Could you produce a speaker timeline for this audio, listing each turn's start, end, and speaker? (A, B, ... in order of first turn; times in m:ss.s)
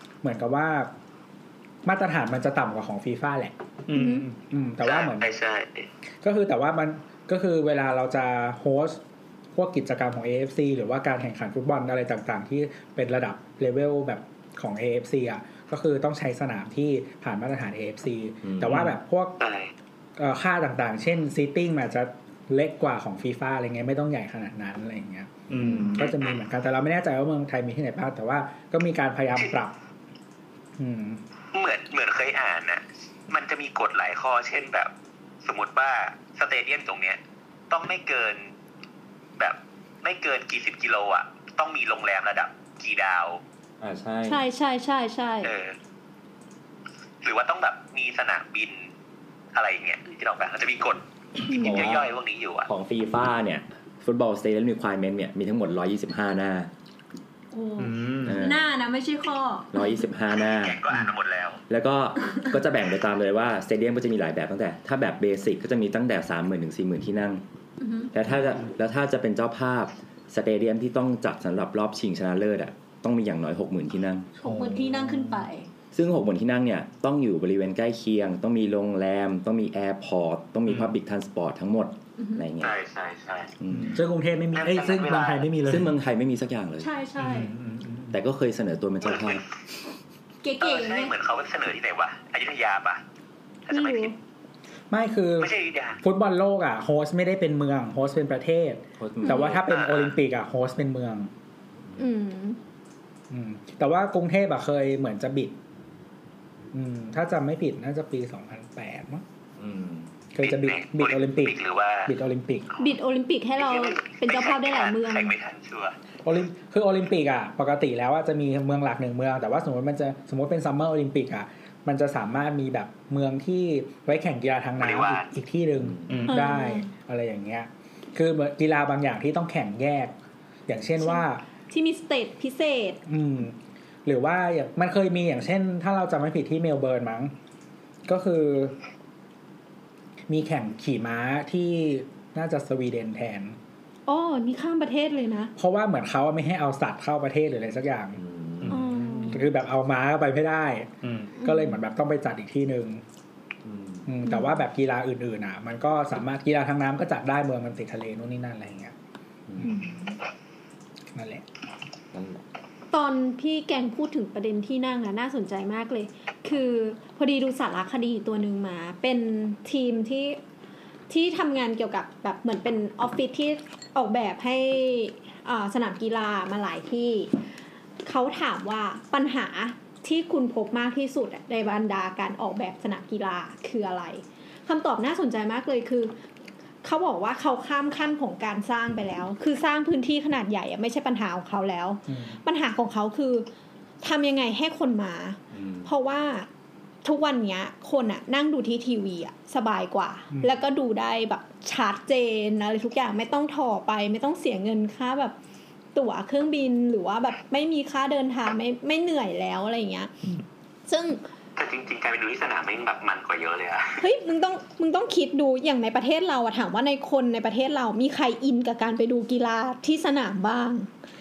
0:00.2-0:00.9 A
0:01.8-0:05.3 A
0:03.9-0:04.3 B
0:03.9-0:04.2 C
0:04.8-0:05.9 D
0:06.2-0:09.0 A
0:09.6-0:19.4 A
0:18.4-0:18.8 E
0:19.4-0:19.7 D
0:20.2-0:29.7 A
0:25.5-0:26.1 B
0:26.0-0:26.4 D
0:30.8-0:31.2 A
0:31.5-0:34.9 D
0:35.4-0:38.5 D
0:39.4-0:43.4 D
0:43.8-0:44.4 E
0:44.3-0:45.5 C
0:45.4-0:45.8 D
0:47.2-0:48.9 D
0:49.5-0:52.7 D
0:51.5-0:51.8 C
0:51.5-0:52.1 E
0:52.7-0:56.7 E
0:57.5-1:00.0 C
0:57.8-0:58.4 B
0:58.2-0:58.7 E
0:59.7-1:00.8 E
1:00.4-1:01.6 D
1:01.7-1:07.4 E
1:07.8-1:08.1 C
1:08.1-1:14.3 E
1:14.4-1:15.7 C
1:14.4-1:15.4 A
1:15.9-1:22.8 E
1:20.7-1:20.9 B
1:22.2-1:22.4 C
1:22.6-1:23.5 D
1:23.6-1:24.0 E
1:23.9-1:25.9 A
1:24.5-1:25.5 D
1:25.7-1:26.9 E
1:26.8-1:27.5 C
1:27.2-1:28.2 B
1:28.1-1:29.4 E
1:29.0-1:29.4 D
1:30.4-1:31.1 C
1:30.6-1:33.0 D
1:33.7-1:34.1 D
1:33.7-1:34.1 C
1:34.9-1:41.3 A
1:35.4-1:36.0 D
1:39.0-1:39.6 E
1:39.2-1:39.5 C
1:39.7-1:40.2 D
1:42.0-1:42.6 C
1:43.3-1:45.6 A
1:46.7-1:49.2 A
1:49.6-1:50.1 E
1:50.3-1:52.7 A
1:50.4-1:52.1 D
1:52.8-1:55.3 C
1:53.6-1:56.0 D
1:56.2-2:10.2 A
2:04.8-2:05.3 D
2:05.8-2:06.2 E
2:06.1-2:06.5 B
2:06.3-2:06.9 C
2:10.7-2:11.4 A
2:11.0-2:13.0 C
2:13.1-2:17.3 A
2:18.1-2:18.8 A
2:20.3-2:23.6 A
2:24.1-2:25.5 C
2:25.6-2:28.2 A
2:28.2-2:28.8 E
2:28.7-2:29.4 C
2:29.1-2:33.0 A
2:31.0-2:31.3 B
2:31.4-2:31.7 C
2:33.6-2:34.1 E
2:34.1-2:38.9 A
2:34.3-2:34.6 C
2:39.6-2:39.9 A
2:39.6-2:40.2 C
2:41.1-2:41.4 A
2:42.1-2:42.4 E
2:42.9-2:50.4 C
2:51.1-2:57.3 C
2:58.0-3:06.2 C
3:06.8-3:13.5 C
3:12.1-3:12.4 A
3:14.0-3:16.5 C
3:15.5-3:15.9 E
3:17.0-3:25.4 C
3:20.3-3:20.6 A
3:26.0-3:30.2 C
3:30.9-3:31.2 C
3:31.6-3:34.0 D
3:34.0-3:40.9 C